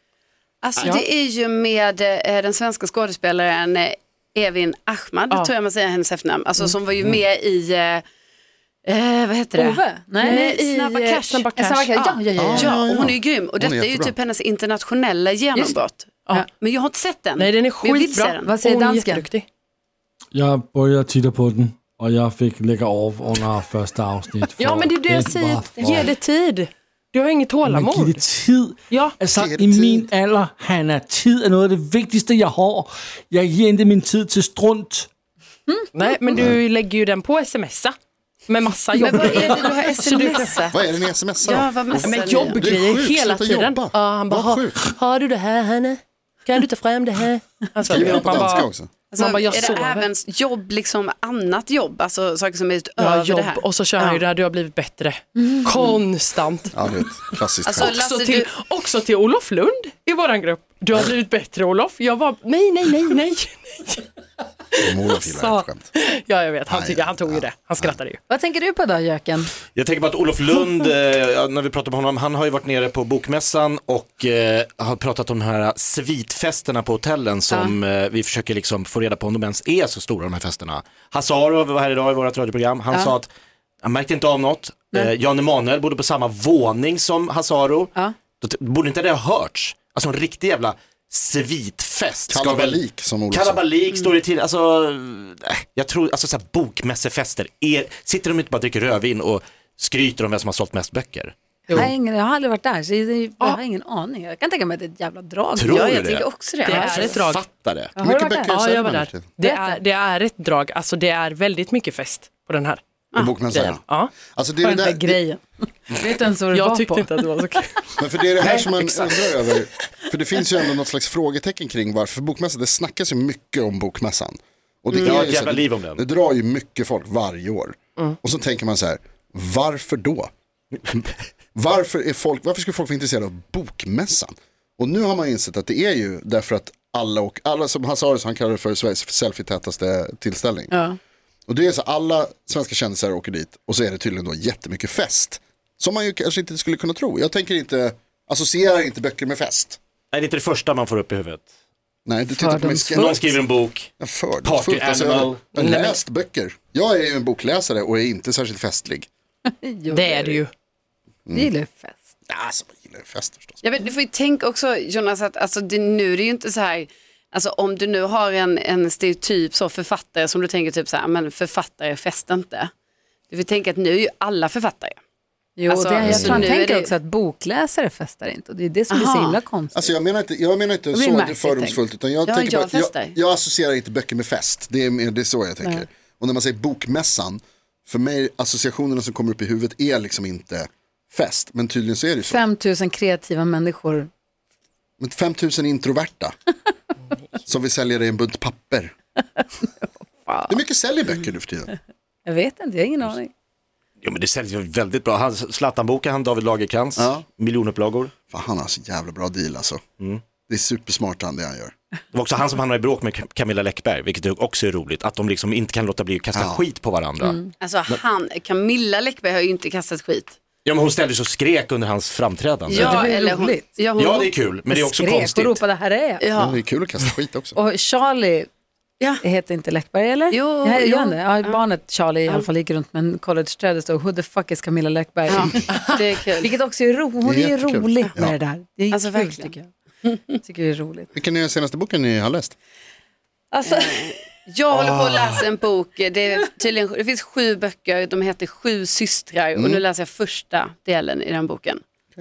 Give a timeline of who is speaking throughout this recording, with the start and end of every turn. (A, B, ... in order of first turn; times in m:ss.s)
0:00.6-0:08.0 A
0:08.8-0:18.5 A
0:09.5-0:10.5 B
0:10.2-0:11.9 C
0:11.5-0:12.8 B
0:12.4-0:14.2 D
0:15.5-0:15.8 B
0:17.4-0:19.4 C
0:18.4-0:19.3 B
0:20.3-0:26.1 E
0:24.6-0:28.2 C
0:27.6-0:35.1 E
0:28.9-0:29.2 C
0:29.3-0:30.1 D
0:35.7-0:36.1 B
0:35.9-0:37.9 C
0:38.5-0:40.5 C
0:38.9-0:42.7 A
0:40.7-0:44.8 D
0:42.0-0:50.1 C
0:47.9-0:48.9 D
0:49.1-0:54.2 A
0:53.0-0:56.7 C
0:55.4-0:55.6 B
0:56.7-0:58.0 D
0:57.6-0:58.5 A
0:57.8-1:04.1 C
1:04.7-1:08.2 C
1:04.8-1:05.9 D
1:06.7-1:08.0 D
1:08.3-1:09.5 B
1:09.7-1:23.3 F
1:17.5-1:17.8 B
1:23.8-1:32.8 F
1:32.3-1:33.6 D
1:33.3-1:41.3 F
1:41.7-1:46.1 B
1:45.6-1:47.9 F
1:45.7-1:47.2 A
1:46.6-1:47.4 C
1:46.7-1:47.1 B
1:48.0-1:48.6 B
1:48.0-1:49.3 D
1:48.4-1:52.8 C
1:49.4-1:49.8 B
1:53.1-1:53.4 A
1:53.2-1:55.2 D
1:53.5-1:54.1 C
1:54.6-1:57.1 B
1:56.5-1:59.2 C
1:58.0-2:10.3 D
2:04.9-2:05.2 A
2:05.0-2:06.0 F
2:10.9-2:20.7 D
2:20.7-2:21.0 B
2:21.5-2:29.8 D
2:30.1-2:31.5 F
2:32.0-2:33.3 D
2:32.3-2:33.3 B
2:32.9-2:33.9 F
2:34.0-2:39.1 D
2:34.4-2:35.5 F
2:35.5-2:36.0 C
2:39.5-2:40.4 B
2:39.9-2:40.5 C
2:41.3-2:42.1 B
2:42.3-2:43.6 D
2:43.6-2:52.7 A
2:53.3-2:55.0 A
2:55.6-2:59.9 B
2:55.7-2:56.9 A
2:58.9-2:59.4 A
2:59.7-3:12.4 D
3:00.9-3:01.8 B
3:02.2-3:03.2 A
3:12.2-3:14.1 B
3:15.0-3:16.3 D
3:17.4-3:18.9 D
3:19.6-3:20.6 B
3:20.5-3:21.7 D
3:22.2-3:23.3 B
3:24.0-3:28.1 F
3:27.0-3:27.2 D
3:28.3-3:29.8 D
3:30.5-3:31.7 D
3:32.1-3:37.3 F
3:36.3-3:36.6 D
3:37.2-3:37.5 B
3:37.6-3:40.4 A
3:40.6-3:43.1 F
3:42.7-3:44.3 A
3:42.7-3:43.6 B
3:44.0-3:45.6 F
3:44.7-3:46.2 B
3:46.2-3:46.6 A
3:46.4-3:47.6 D
3:47.5-3:48.5 B
3:49.2-3:59.7 B
3:50.3-3:51.6 A
3:55.3-3:56.5 A
3:57.2-3:58.3 D
3:58.9-3:59.5 A
4:00.0-4:00.3 A
4:00.4-4:01.1 B
4:01.1-4:02.5 D
4:03.5-4:11.8 A
4:04.7-4:05.4 D
4:09.5-4:09.8 D